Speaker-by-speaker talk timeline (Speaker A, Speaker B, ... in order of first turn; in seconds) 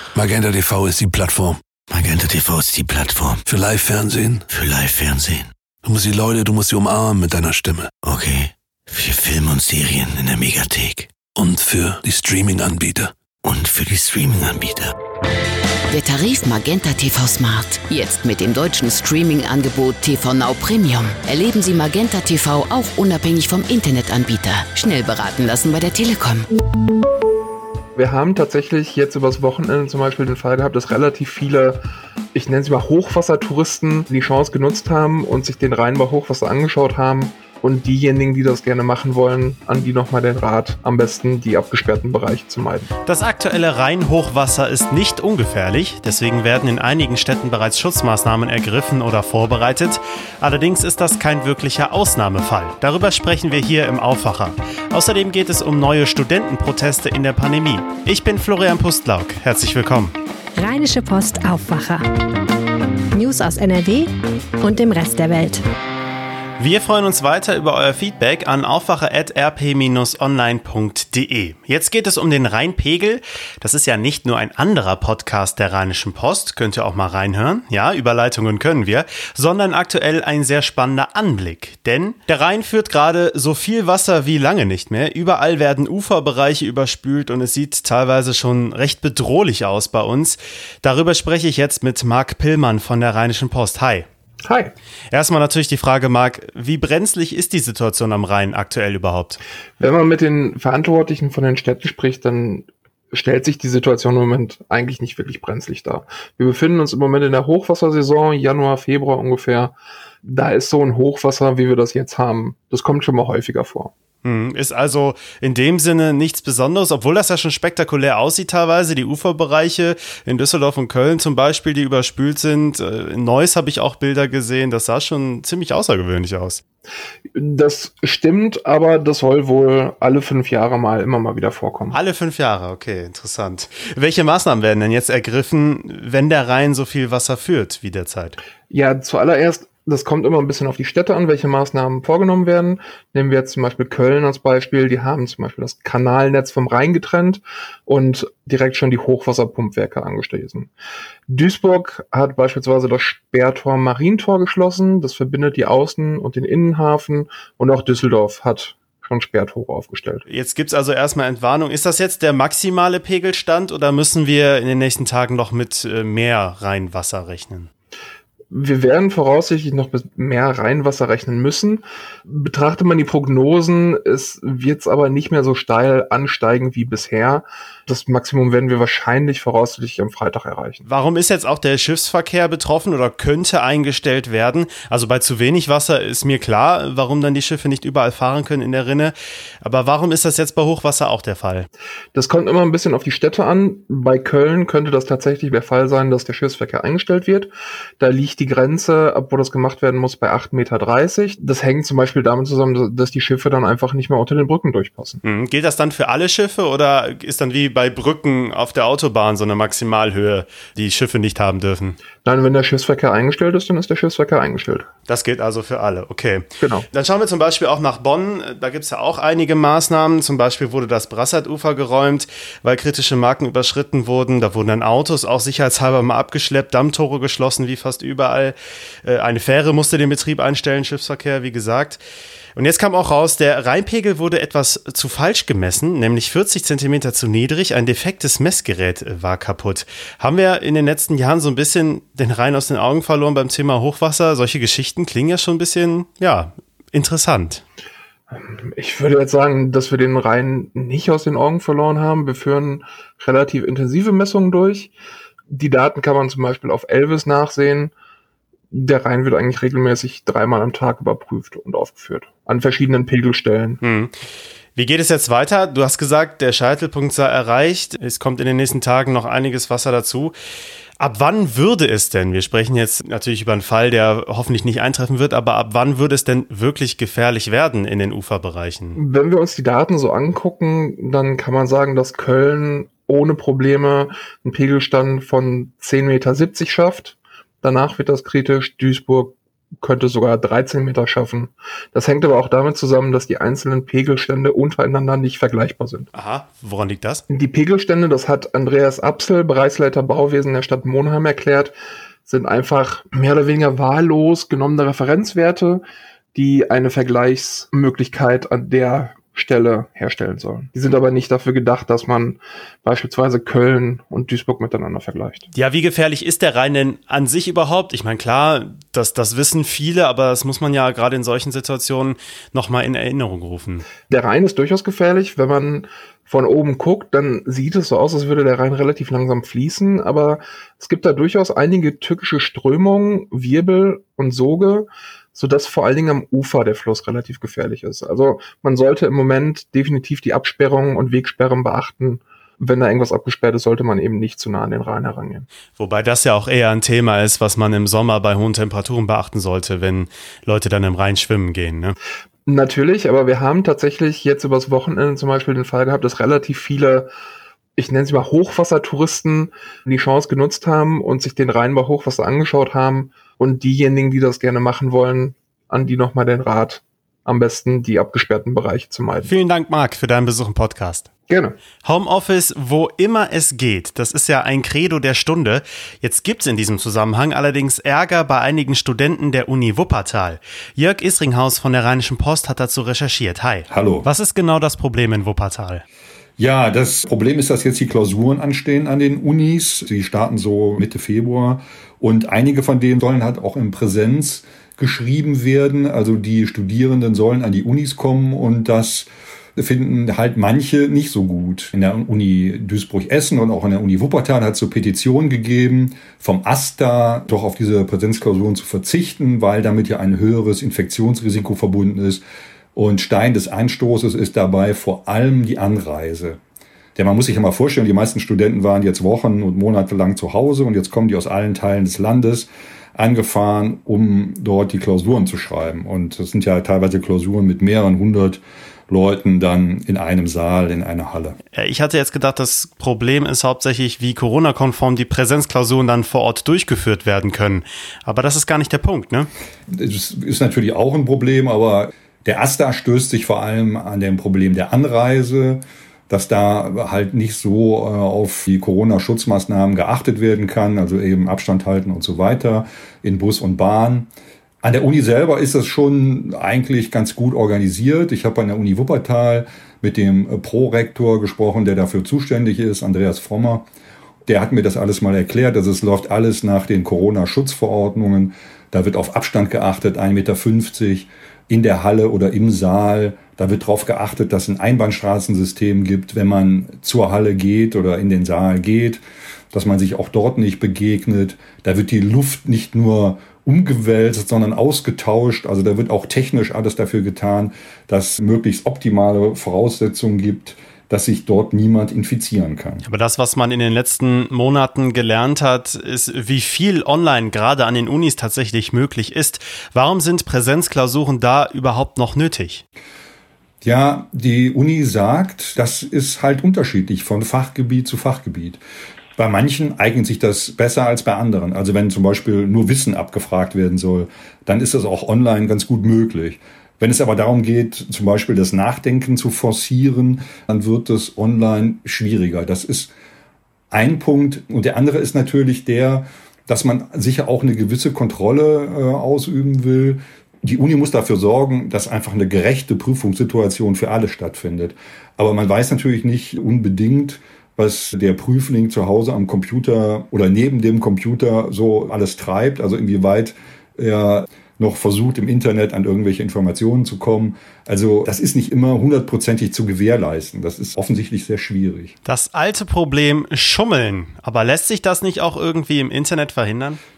Speaker A: 0.1-1.6, 3.5-4.5, 5.8-7.9, 11.3-13.1
Speaker B: 1.9-3.4, 4.5-5.5, 8.0-11.1, 13.4-14.9
Speaker C: 15.9-26.5
Speaker D: 27.9-31.8, 32.3-42.9, 94.4-94.7, 99.8-113.9, 127.3-132.0, 138.7-150.7, 151.3-160.2, 168.5-180.8, 192.1-205.2, 212.2-214.9, 216.6-216.8, 248.3-254.9, 255.5-257.9, 258.7-263.8, 278.9-296.1, 297.3-301.7, 302.2-305.8, 306.3-315.5, 324.1-345.5, 352.4-357.1, 357.8-369.3, 371.3-371.6
Speaker E: 43.0-60.1, 66.6-94.1, 95.1-99.4, 114.2-126.6, 131.9-138.4, 160.3-167.7, 180.8-191.7, 205.2-212.0, 215.1-232.0, 232.5-247.6, 263.8-264.1, 264.7-270.3, 271.0-279.0, 296.1-297.2, 315.5-323.9, 345.7-351.9, 369.2-371.1, 371.8-385.8, 431.5-439.3, 492.8-502.6, 552.0-556.8
Speaker F: 60.6-62.0, 63.1-64.1, 64.6-65.6
Speaker G: 383.7-384.1, 386.4-412.2, 412.7-416.4, 416.9-431.4, 439.7-454.1, 454.6-463.6, 464.2-479.0, 479.5-492.8, 503.6-508.6, 509.2-522.9, 523.7-551.9